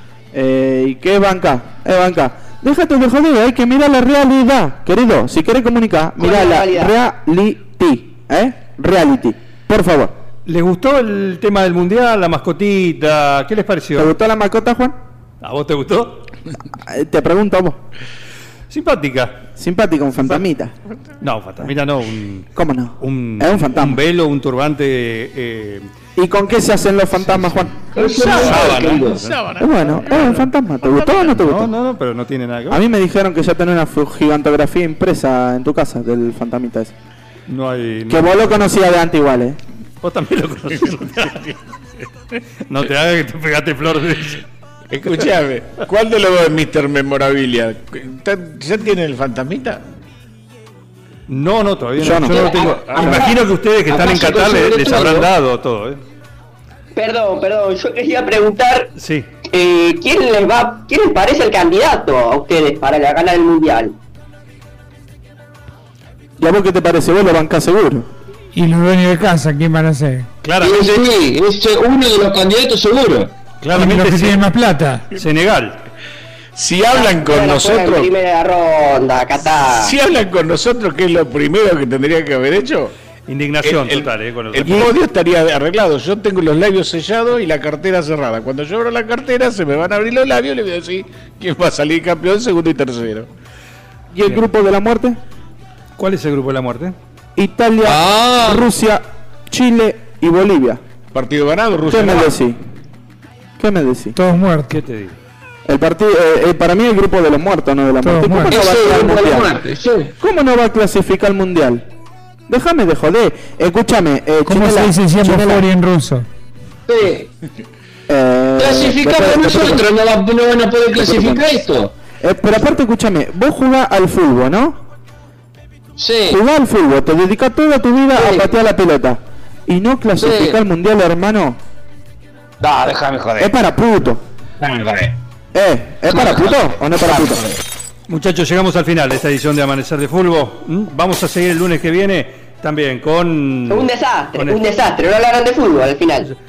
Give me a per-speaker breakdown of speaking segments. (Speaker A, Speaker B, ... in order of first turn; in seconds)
Speaker A: 0.3-10.1, 13.9-14.9, 16.7-17.8, 19.6-20.7, 22.5-24.0, 26.2-27.8, 29.6-31.7, 32.7-36.9, 38.1-39.6, 52.0-52.4, 66.4-68.1, 94.1-95.2, 97.3-100.8, 101.8-102.6, 103.6-104.2, 105.7-109.5, 110.2-111.8, 112.5-115.6, 118.1-119.8, 120.9-121.4, 122.2-124.8, 126.3-131.6, 133.4-134.2, 135.5-137.4
Speaker B: 6.2-6.9, 52.3-53.3, 57.0-58.9, 59.5-64.0, 76.9-80.0, 143.7-146.3
Speaker C: 10.5-14.1, 15.4-16.3, 18.7-19.4, 21.2-22.5, 23.0-25.9, 28.2-29.4, 31.2-32.8, 37.5-38.5, 40.0-41.5, 42.7-44.4, 51.3-56.0, 59.0-59.3, 70.4-70.8, 73.6-74.4, 75.2-75.8, 83.3-84.9, 96.0-96.9, 104.7-105.2, 138.1-144.6
Speaker D: 27.9-29.2, 52.4-53.3, 53.9-55.3, 70.6-73.3, 97.8-98.7, 108.5-110.1, 116.9-117.3, 118.6-121.9, 126.0-126.4, 128.1-128.5, 130.2-130.6, 132.6-133.5, 134.6-135.2, 136.1-137.6
Speaker E: 28.0-30.9, 44.9-49.8, 76.5-78.1, 79.8-82.9, 83.6-93.3, 101.1-102.3
Speaker F: 68.5-70.3, 73.7-75.1, 104.2-104.7, 108.0-108.6, 114.5-116.2